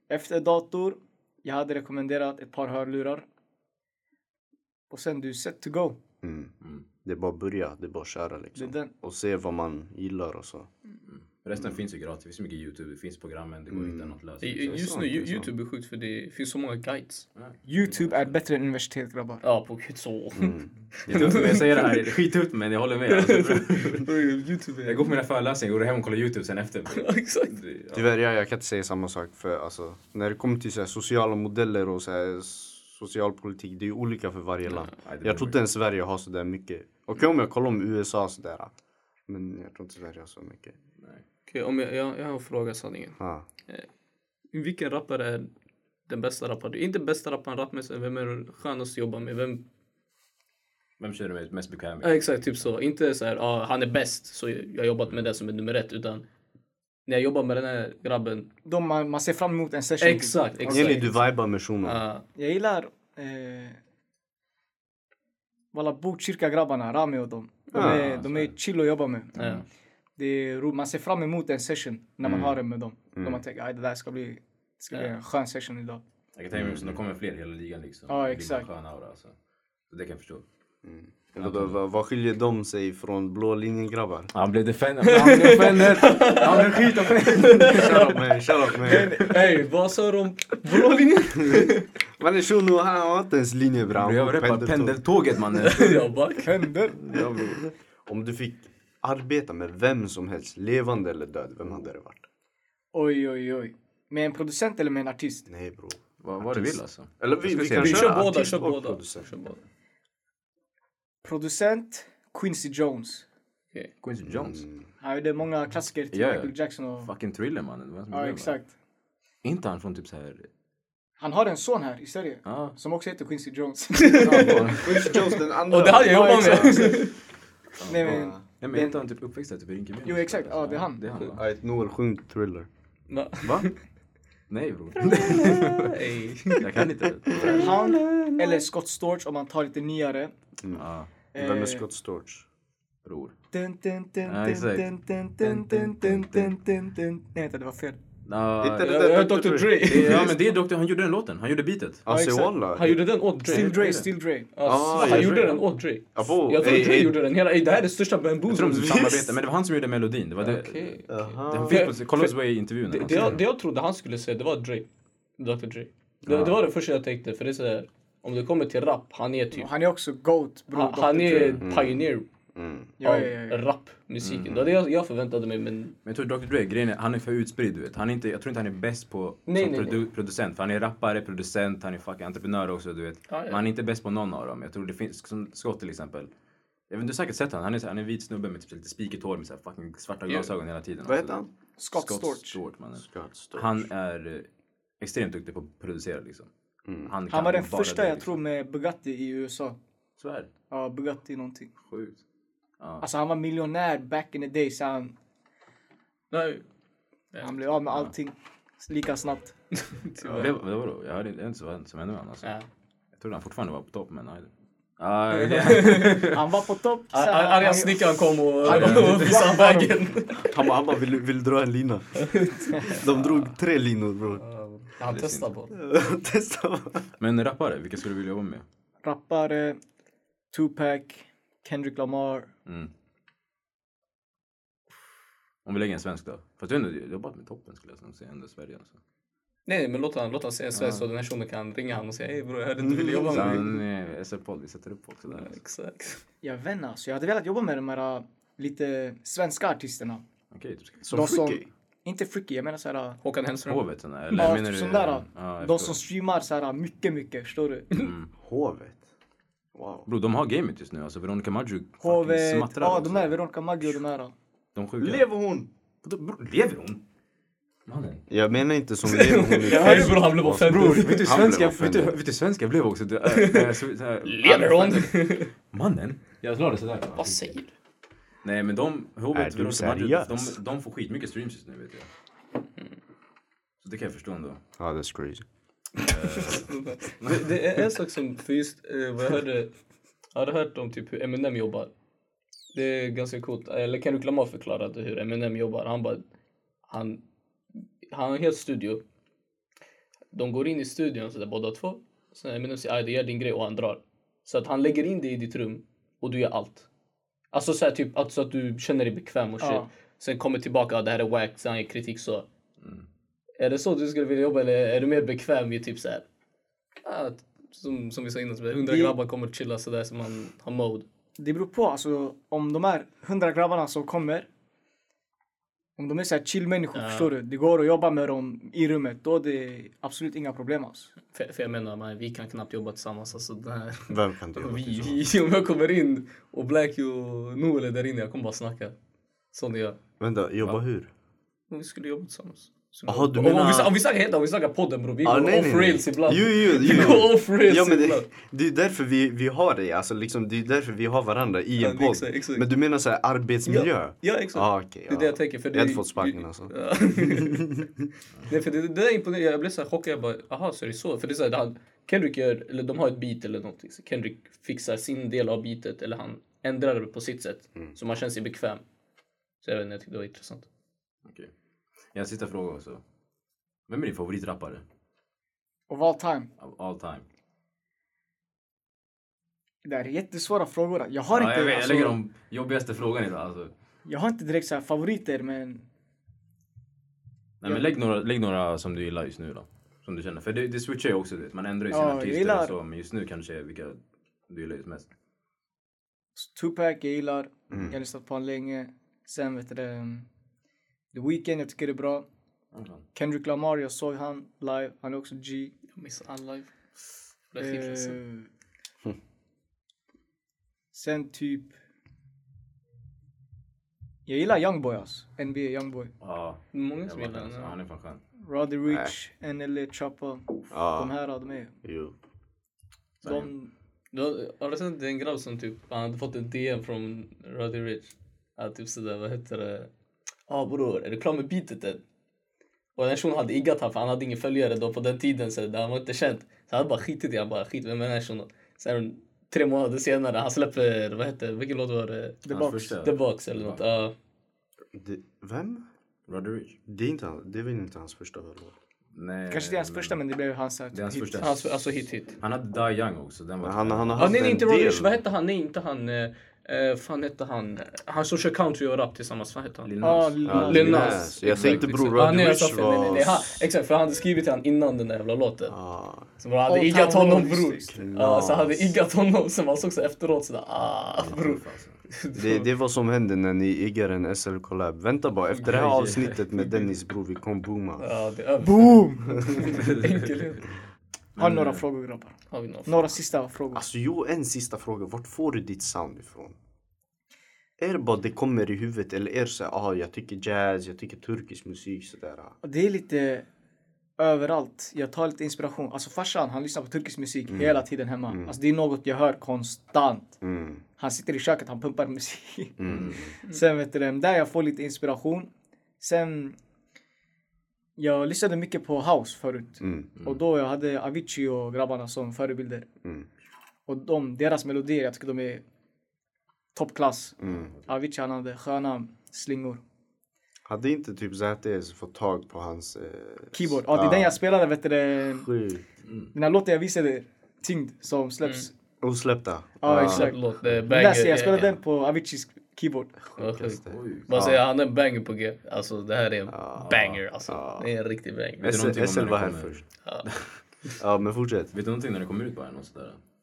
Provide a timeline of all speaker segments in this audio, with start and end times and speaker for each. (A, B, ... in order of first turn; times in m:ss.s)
0:00.1-0:03.3 A
0:04.9-0:06.0 A
0:06.2-0:06.5 B
0:07.0-0:10.7 B
0:08.6-0:08.9 A
0:11.1-0:15.0 C
0:13.7-0:15.5 B
0:14.4-0:17.3 D
0:17.4-0:18.4 C
0:17.6-0:19.4 A
0:19.4-0:22.2 D
0:20.4-0:21.5 B
0:21.1-0:24.1 C
0:23.1-0:25.1 D
0:24.8-0:28.1 C
0:26.9-0:27.6 D
0:27.9-0:38.7 B
0:34.8-0:35.6 C
0:39.3-0:40.8 B
0:41.5-0:43.9 D
0:43.2-0:43.4 B
0:44.5-0:45.5 D
0:46.1-0:49.6 D
0:51.0-0:52.3 C
0:52.0-0:56.3 D
0:57.1-0:58.5 D
0:58.6-1:01.0 A
1:00.0-1:01.2 D
1:00.7-1:02.0 B
1:01.8-1:02.2 D
1:02.4-1:03.8 A
1:05.7-1:09.4 A
1:07.7-1:08.2 B
1:07.7-1:08.5 C
1:09.4-1:09.6 C
1:09.4-1:09.6 D
1:10.2-1:16.0 A
1:12.2-1:12.6 B
1:13.1-1:13.4 B
1:16.3-1:19.4 C
1:16.5-1:17.0 B
1:18.1-1:18.7 A
1:19.9-1:20.4 C
1:20.8-1:24.3 B
1:21.4-1:21.8 C
1:24.3-1:28.0 C
1:25.0-1:28.2 D
1:27.6-1:29.4 B
1:28.8-1:31.9 D
1:28.9-1:29.4 A
1:31.4-1:35.0 B
1:33.9-1:36.1 C
1:35.5-1:36.5 D
1:36.4-1:37.2 A
1:36.8-1:37.7 C
1:38.1-1:42.3 B
1:42.9-1:45.5 A
1:45.5-1:49.3 B
1:46.2-1:48.2 C
1:47.8-1:49.6 D
1:51.2-1:53.3 A
1:54.0-1:54.7 C
1:54.2-1:54.8 B
1:55.0-1:57.1 A
1:56.1-1:58.6 C
1:58.1-1:58.7 A
1:59.4-2:00.5 C
2:01.2-2:04.9 A
2:02.5-2:02.8 C
2:04.0-2:07.1 D
2:04.3-2:04.9 C
2:04.8-2:07.0 B
2:06.1-2:07.1 A
2:07.8-2:11.4 C
2:07.9-2:09.0 A
2:08.0-2:08.4 B
2:10.0-2:11.0 A
2:11.4-2:12.7 B
2:13.1-2:13.8 D
2:14.5-2:16.0 C
2:15.0-2:16.7 D
2:16.5-2:17.8 C
2:17.4-2:18.6 B
2:17.4-2:20.3 A
2:20.6-2:20.9 B
2:20.7-2:21.1 C
2:21.3-2:21.8 A
2:21.4-2:22.5 B
2:23.0-2:23.4 C
2:23.5-2:28.0 A
2:24.3-2:26.6 C
2:28.2-2:29.0 C
2:28.6-2:30.1 B
2:28.8-2:30.4 D
2:29.6-2:32.1 C
2:32.1-2:33.0 B
2:32.1-2:32.6 A
2:32.7-2:33.9 D
2:33.4-2:34.5 A
2:33.5-2:34.1 C
2:34.6-2:39.2 D
2:34.6-2:37.2 B
2:35.0-2:35.2 C
2:38.5-2:43.4 C
2:38.7-2:39.4 B
2:40.4-2:44.9 D
2:41.1-2:41.9 B
2:45.4-2:49.7 D
2:46.2-2:46.6 B
2:49.5-2:51.6 A
2:50.7-2:52.3 D
2:51.6-2:52.9 B
2:53.0-2:53.6 A
2:53.0-2:56.0 D
2:54.2-2:54.7 C
2:56.0-3:06.3 C
2:59.5-3:00.0 D
3:03.3-3:03.6 D
3:06.9-3:11.4 C
3:11.0-3:11.5 B
3:11.8-3:12.6 A
3:11.9-3:14.5 C
3:13.0-3:13.9 B
3:15.0-3:16.5 C
3:16.8-3:17.1 B
3:17.1-3:18.4 C
3:17.3-3:19.8 A
3:20.2-3:20.5 C
3:20.7-3:21.7 A
3:21.9-3:22.2 C
3:22.8-3:23.0 C
3:23.0-3:25.1 A
3:26.3-3:26.6 D
3:27.4-3:29.6 A
3:29.9-3:30.5 D
3:30.2-3:32.5 C
3:33.2-3:36.6 C
3:35.3-3:36.3 D
3:36.2-3:40.0 A
3:37.1-3:40.6 D
3:38.6-3:39.5 C
3:40.4-3:44.4 B
3:42.2-3:43.4 D
3:44.4-3:45.8 D
3:45.0-3:45.5 C
3:45.7-3:47.1 B
3:47.2-3:48.6 C
3:49.0-3:49.8 A
3:50.5-3:52.5 A
3:52.7-3:52.9 C
3:55.6-3:59.0 C
3:59.7-4:03.8 D
4:00.7-4:01.0 C
4:02.9-4:03.3 B
4:03.2-4:05.6 C
4:05.3-4:06.2 D
4:06.4-4:10.2 A
4:10.5-4:11.1 C
4:11.0-4:11.7 B
4:11.1-4:13.2 A
4:13.2-4:13.8 D
4:13.7-4:16.0 C
4:14.4-4:17.9 A
4:17.9-4:18.3 C
4:18.4-4:19.0 B
4:19.7-4:20.1 B
4:20.1-4:23.3 C
4:22.0-4:24.3 A
4:24.8-4:25.3 C
4:25.0-4:25.7 B
4:26.0-4:27.0 C
4:27.9-4:28.3 C
4:28.3-4:32.2 B
4:29.0-4:31.4 D
4:29.7-4:37.6 C
4:33.3-4:35.5 D
4:37.2-4:37.7 D
4:38.4-4:42.1 C
4:39.3-4:40.6 B
4:43.8-4:44.6 C
4:44.8-4:45.4 B
4:46.0-4:47.6 C
4:46.5-4:49.8 D
4:50.3-4:51.9 D
4:52.7-4:56.2 D
4:56.9-4:57.2 D
4:58.1-4:59.0 D
5:00.3-5:06.9 D
5:07.5-5:12.5 D
5:09.6-5:09.9 A
5:12.8-5:13.1 C
5:13.6-5:16.2 D
5:17.0-5:21.1 D
5:18.9-5:19.2 A
5:21.4-5:24.5 A
5:26.0-5:31.1 A
5:26.9-5:27.3 D
5:31.3-5:39.0 D
5:34.1-5:35.2 B
5:39.5-5:40.0 D
5:40.2-5:41.1 B
5:41.7-5:48.3 D
5:43.1-5:43.9 B
5:45.2-5:58.1 B
5:51.8-5:52.7 D
5:53.7-5:57.8 D
5:58.5-6:08.8 D
6:09.6-6:10.7 D
6:11.3-6:11.5 C
6:12.1-6:13.0 C
6:13.9-6:14.8 C
6:15.9-6:16.5 A
6:16.6-6:17.2 C
6:19.8-6:22.2 A
6:21.3-6:23.7 C
6:24.0-6:25.8 A
6:27.6-6:35.1 C
6:31.9-6:32.8 A
6:36.4-6:40.3 A
6:37.7-6:38.0 B
6:41.1-6:42.3 A
6:42.7-6:43.0 C
6:43.2-6:45.7 A
6:46.0-6:46.7 D
6:47.5-6:48.2 D
6:47.6-6:48.5 A
6:50.9-6:51.8 A
6:54.3-6:56.1 A
6:56.2-6:58.2 C
6:56.7-6:57.8 D
6:58.4-7:01.8 A
6:58.9-6:59.2 B
7:00.7-7:01.1 B
7:01.8-7:02.1 B
7:03.2-7:03.7 A
7:03.2-7:03.5 C
7:04.1-7:09.9 D
7:10.5-7:12.0 D
7:13.0-7:22.4 D
7:22.4-7:23.0 A
7:22.5-7:23.8 C
7:23.0-7:24.1 D
7:24.9-7:25.8 B
7:26.3-7:26.8 C
7:26.9-7:28.8 B
7:29.1-7:30.2 C
7:29.5-7:31.4 A
7:30.9-7:31.8 C
7:31.4-7:32.4 D
7:32.4-7:34.6 C
7:33.6-7:35.2 B
7:34.2-7:45.8 D
7:39.8-7:41.9 C
7:40.0-7:41.3 A
7:40.4-7:43.6 B
7:45.7-7:46.3 B
7:46.4-7:52.7 D
7:46.7-7:48.1 A
7:47.9-7:48.9 B
7:51.2-7:52.0 C
7:52.3-7:58.1 B
7:55.6-7:55.8 D
7:55.6-7:56.8 C
7:58.0-8:00.7 D
7:58.6-7:59.7 A
7:59.7-8:00.4 C
8:01.4-8:01.8 C
8:01.4-8:03.9 A
8:02.5-8:03.2 D
8:03.7-8:06.6 B
8:07.8-8:12.6 B
8:12.6-8:13.5 A
8:14.2-8:20.4 A
8:17.5-8:17.8 B
8:18.3-8:18.5 B
8:20.4-8:20.8 B
8:21.0-8:26.6 A
8:22.8-8:23.3 B
8:22.9-8:23.2 C
8:28.0-8:32.9 A
8:29.8-8:30.1 B
8:33.9-8:35.6 A
8:36.7-8:39.8 A
8:37.4-8:37.7 B
8:40.7-8:44.4 B
8:43.5-8:45.5 A
8:45.4-8:45.8 B
8:46.1-8:46.3 C
8:46.3-8:48.7 A
8:49.0-8:50.3 B
8:49.8-8:53.2 A
8:49.9-8:51.8 D
8:53.3-8:54.6 B
8:53.4-8:58.7 D
8:53.9-8:54.4 C
8:56.5-8:57.9 B
8:56.8-8:57.2 C
8:58.6-8:59.8 B
8:58.6-9:00.5 C
9:00.0-9:00.3 D
9:01.0-9:01.7 B
9:01.7-9:03.2 C